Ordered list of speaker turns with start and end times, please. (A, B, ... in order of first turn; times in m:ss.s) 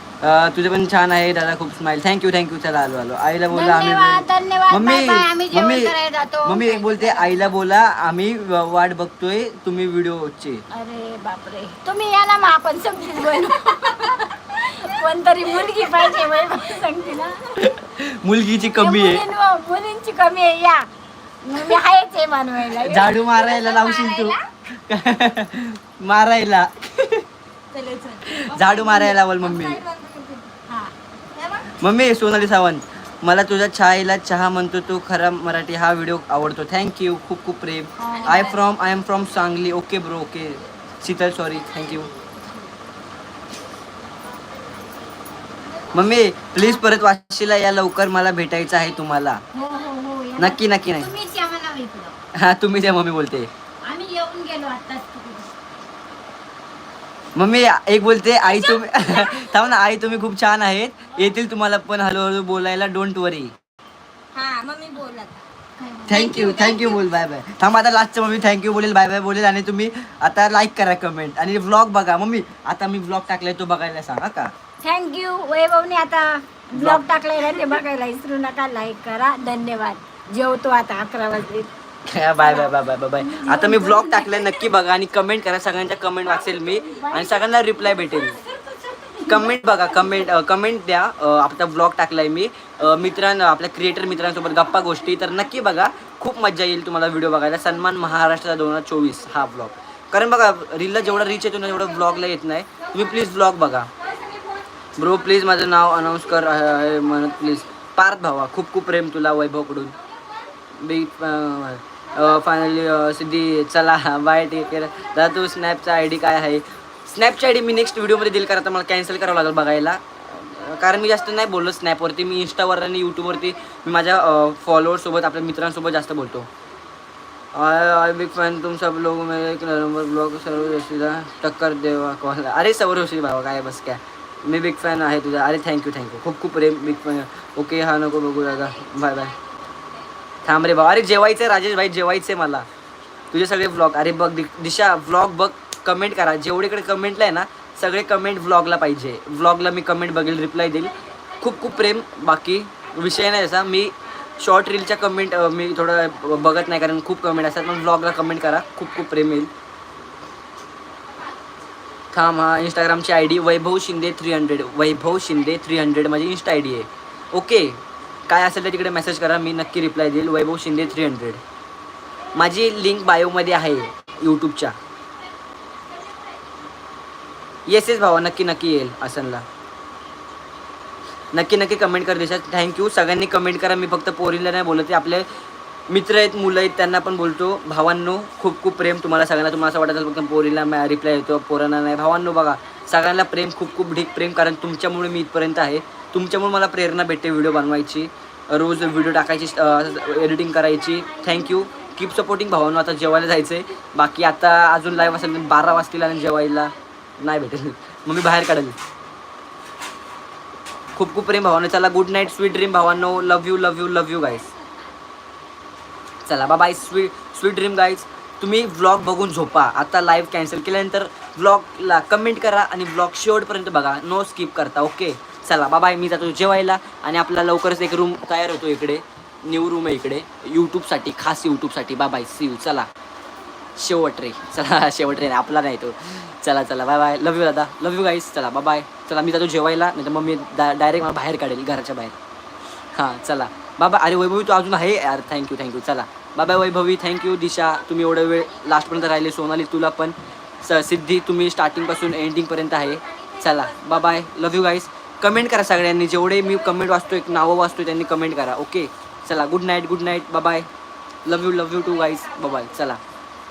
0:00.2-0:05.9 A
0:03.5-0:07.5 B
0:06.4-0:10.6 A
0:10.7-0:17.4 B
0:17.6-0:19.2 A
0:18.8-0:20.9 B
0:21.4-0:23.3 B
0:22.7-0:27.3 A
0:23.0-0:24.4 C
0:27.7-0:30.5 C
0:28.3-0:29.8 A
0:31.3-0:31.7 C
0:31.8-0:42.1 A
0:38.0-0:38.5 B
0:38.0-0:38.6 C
0:45.9-0:49.4 A
0:49.5-0:52.2 B
0:50.4-0:51.1 A
0:52.4-0:53.5 A
0:53.8-0:55.5 B
0:57.4-1:03.6 A
0:58.5-0:59.5 B
1:04.3-1:07.0 C
1:06.1-1:14.5 A
1:14.8-1:21.7 B
1:16.8-1:17.0 A
1:22.1-1:28.4 A
1:22.4-1:24.6 B
1:26.8-1:27.4 B
1:27.9-1:28.3 B
1:29.2-1:43.9 A
1:29.3-1:29.5 B
1:44.0-1:44.7 C
1:45.0-1:50.0 A
1:50.8-2:06.5 A
2:07.5-2:19.4 A
2:20.4-2:22.7 A
2:23.3-2:39.5 A
2:42.1-2:51.4 A
2:52.3-2:54.8 A
2:57.7-2:59.4 A
3:01.3-3:05.3 A
3:05.9-3:28.8 A
3:21.4-3:21.9 B
3:30.9-3:34.5 A
3:36.3-3:52.9 A
3:53.8-4:02.2 A
4:02.9-4:20.7 A
4:13.0-4:14.2 C
4:21.2-4:23.0 A
4:22.2-4:22.6 C